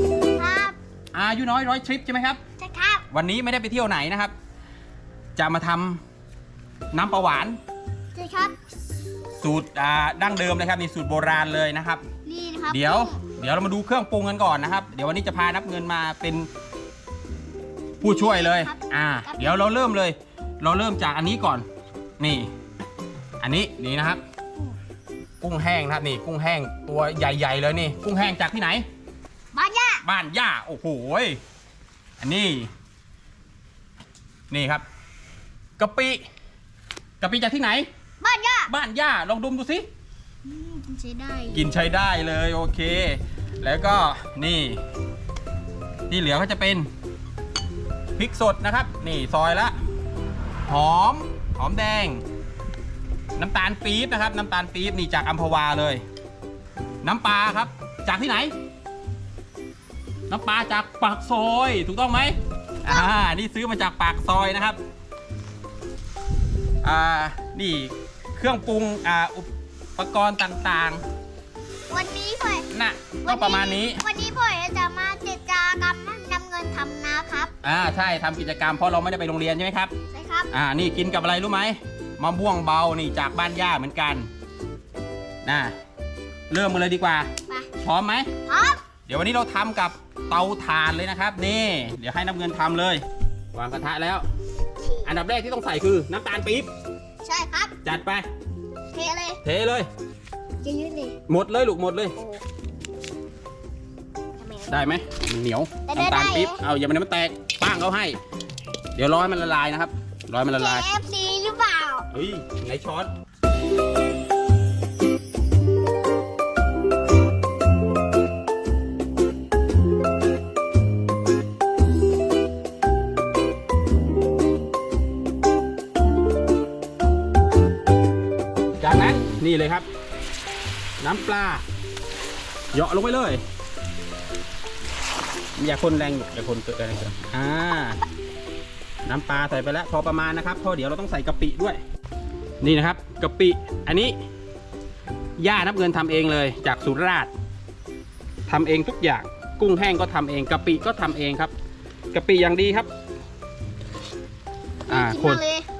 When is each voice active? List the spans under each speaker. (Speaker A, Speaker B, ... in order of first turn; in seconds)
Speaker A: 0.4-0.8, 2.6-3.0, 8.2-8.6, 12.3-13.2, 18.0-19.6, 29.5-30.0, 38.2-38.7, 40.5-41.7, 62.9-63.1, 71.9-72.7, 73.2-77.5, 80.1-80.5, 88.5-88.8, 97.2-97.8, 98.9-99.4, 100.6-101.2, 102.2-102.4, 104.4-104.8, 105.9-106.6, 110.5-112.1, 154.9-155.7
Speaker B: 1.1-2.4, 3.1-4.3, 5.4-6.0, 6.9-7.6, 9.4-12.1, 12.7-16.5, 18.0-21.6, 22.2-22.5, 23.4-24.2, 25.4-28.9, 30.0-31.4, 32.2-32.7, 34.5-34.8, 35.8-36.2, 37.2-37.9, 38.7-39.9, 41.5-44.8, 46.1-46.9, 48.2-49.8, 50.7-52.2, 53.4-56.0, 57.0-58.5, 60.3-64.8, 66.8-71.0, 72.7-74.0, 77.6-79.9, 80.5-84.3, 85.4-85.8, 86.5-87.3, 87.8-88.3, 89.1-94.2, 95.0-96.7, 97.8-98.3, 99.4-99.9, 101.3-102.1, 104.7-108.2, 109.0-110.9, 112.1-113.1, 128.8-129.9, 131.0-131.6, 132.7-133.4, 135.6-138.0, 139.1-141.8, 142.6-144.2, 145.4-147.3, 148.5-151.5, 152.1-152.9, 154.9-155.4